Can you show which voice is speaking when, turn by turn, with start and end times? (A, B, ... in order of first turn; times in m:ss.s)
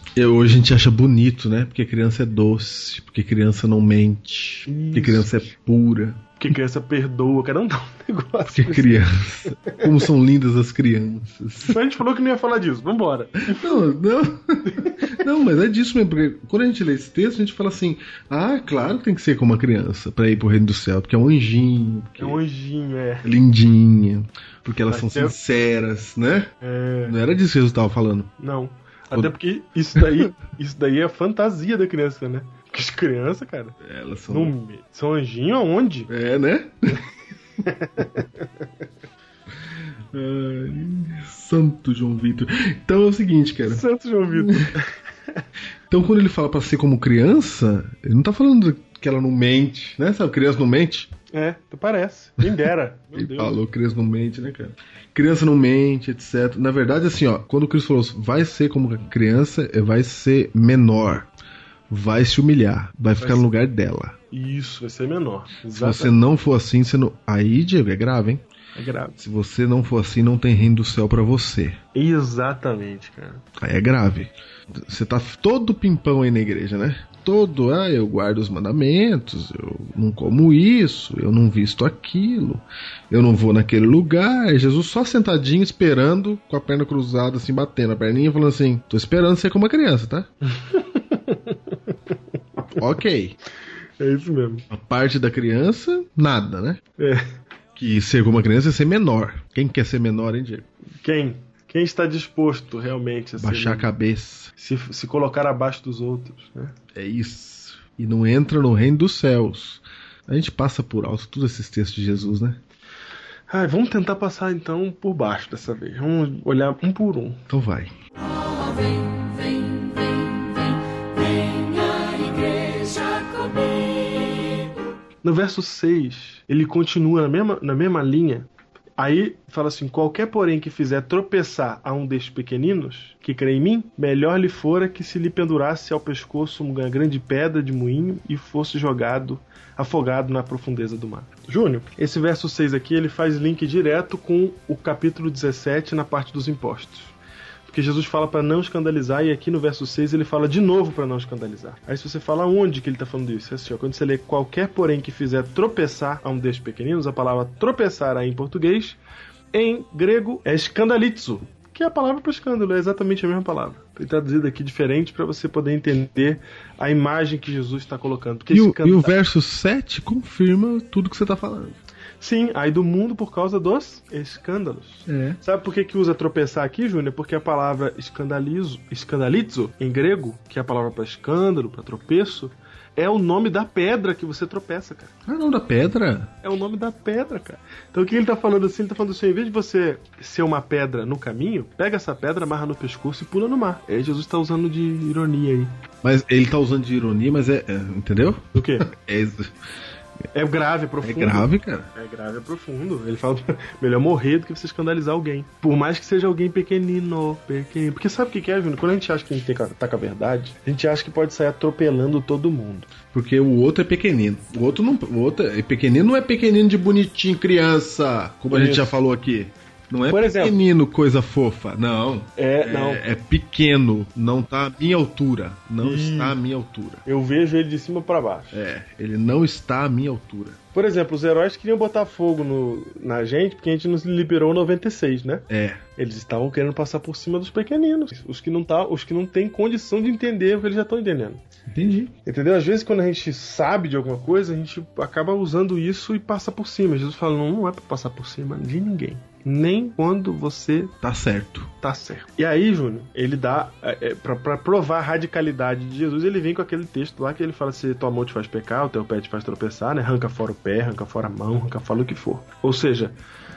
0:00.2-0:06.2 A
0:04.7-0:05.4 B
0:06.4-0:09.8 B
0:08.5-0:11.8 A
0:11.6-0:13.8 B
0:13.5-0:22.4 A
0:14.6-0:15.2 B
0:22.2-0:23.3 B
0:23.2-0:26.5 A
0:24.9-0:25.3 B
0:26.6-0:27.2 B
0:27.0-0:28.3 A
0:28.4-0:33.8 B
0:29.9-0:30.2 A
0:33.8-0:34.5 A
0:34.3-0:36.1 B
0:36.1-0:37.0 A
0:37.6-0:38.6 B
0:39.6-0:44.7 A
0:43.6-0:45.4 B
0:45.9-0:51.1 A
0:51.3-0:53.6 B
0:53.1-1:01.3 A
1:01.9-1:04.2 A
1:03.2-1:03.5 B
1:04.3-1:06.1 B
1:05.8-1:08.4 A
1:08.8-1:09.2 B
1:09.2-1:11.8 A
1:11.9-1:13.4 B
1:13.6-1:30.3 A
1:30.5-1:31.9 B
1:32.8-1:33.4 A
1:34.0-1:34.6 B
1:34.7-1:36.8 A
1:37.0-1:37.3 B
1:37.8-1:40.7 A
1:41.0-1:43.9 B
1:43.4-1:44.5 A
1:44.6-1:46.7 B
1:46.9-1:52.6 A
1:53.5-1:57.4 B
1:57.5-1:57.9 A
1:58.2-2:04.7 C
2:05.2-2:27.1 B
2:27.7-2:39.0 B
2:39.5-2:49.1 B
2:48.5-2:51.8 A
2:52.2-3:05.1 B
2:55.1-2:55.4 A
3:05.2-3:06.3 A
3:06.4-3:15.7 B
3:16.0-3:19.5 A
3:18.5-3:18.9 B
3:20.3-3:32.9 B
3:21.0-3:21.9 A
3:33.1-3:47.0 A
3:38.5-3:39.0 B
3:40.1-3:40.6 B
3:42.4-3:43.0 B
3:45.8-3:46.4 B
3:47.0-3:48.6 B
3:48.5-3:50.6 A
3:50.7-4:01.4 B
3:55.5-3:55.8 A
4:01.7-4:02.1 A
4:02.2-4:10.9 B
4:11.0-4:11.7 A
4:11.8-4:23.2 B